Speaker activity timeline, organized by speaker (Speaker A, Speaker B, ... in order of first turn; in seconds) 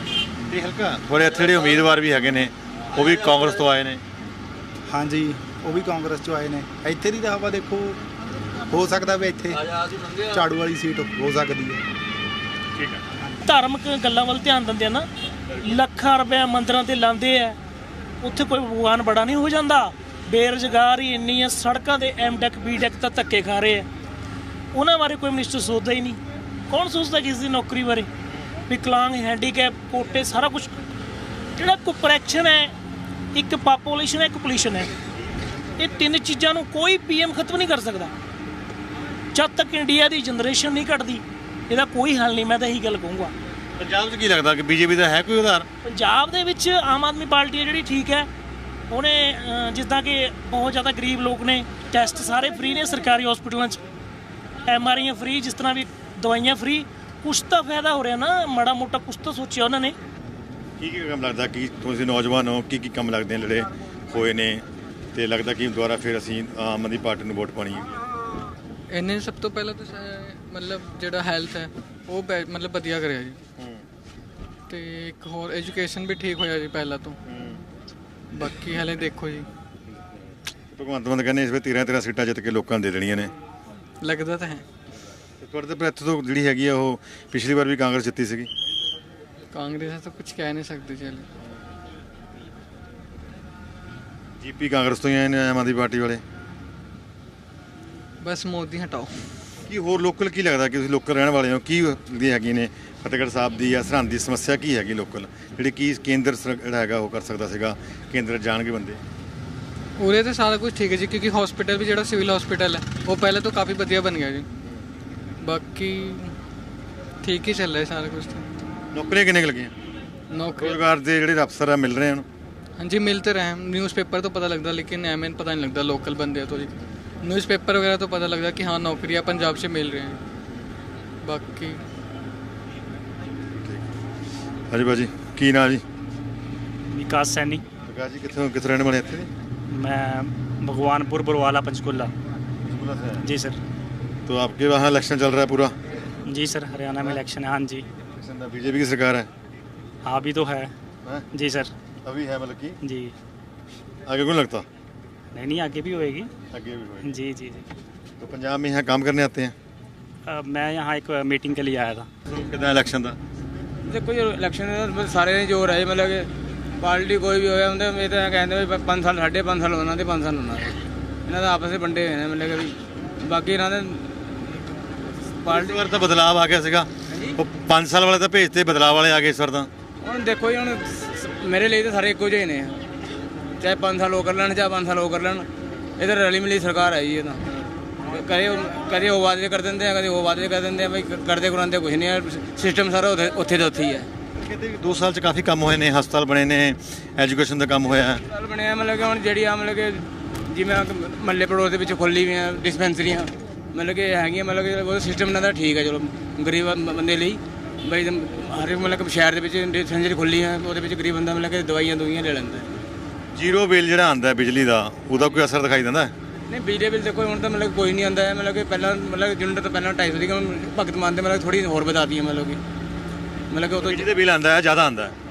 Speaker A: 0.5-4.0, 43.8-45.7, 60.8-64.6, 65.2-67.9, 73.6-73.8, 77.3-77.6, 79.9-83.3, 85.4-88.5, 94.4-96.2, 99.7-109.0, 118.9-119.7, 120.6-122.2, 134.7-135.8, 137.9-139.3, 142.7-143.2, 144.3-145.8, 148.2-149.3, 152.0-152.8, 154.1-154.7, 156.5-157.1, 158.2-159.5, 162.3-163.2, 175.5-179.7, 194.4-198.2, 213.3-216.1, 223.8-225.2
Speaker B: 4.9-8.0, 8.7-9.6, 10.2-11.8
Speaker C: 13.5-15.1, 15.6-17.6, 18.2-23.9, 24.7-26.2, 26.7-28.1, 28.7-30.7, 31.6-32.7, 33.3-34.9, 35.8-38.1, 39.3-43.3, 45.9-48.3, 48.9-53.8, 54.7-60.0
Speaker D: 68.9-73.4, 74.7-77.2, 78.3-79.5, 84.0-84.6, 89.5-91.2, 98.2-99.1, 110.0-114.5, 115.4-116.3, 117.2-118.5, 120.3-120.8, 122.8-130.2, 131.2-131.8
Speaker E: 136.9-137.6, 139.7-142.1, 143.2-143.6, 146.3-147.8, 150.0-150.7, 151.3-151.7, 152.8-153.1, 155.3-156.3, 157.0-157.6, 160.3-162.1
Speaker F: 163.9-166.2, 166.8-170.7, 171.3-172.7, 173.3-173.7, 180.1-180.7, 181.5-182.7, 183.6-185.4, 186.0-187.3, 188.1-194.0, 198.5-199.8, 200.6-203.2, 203.8-207.4, 207.9-212.7, 216.5-222.6, 223.6-224.1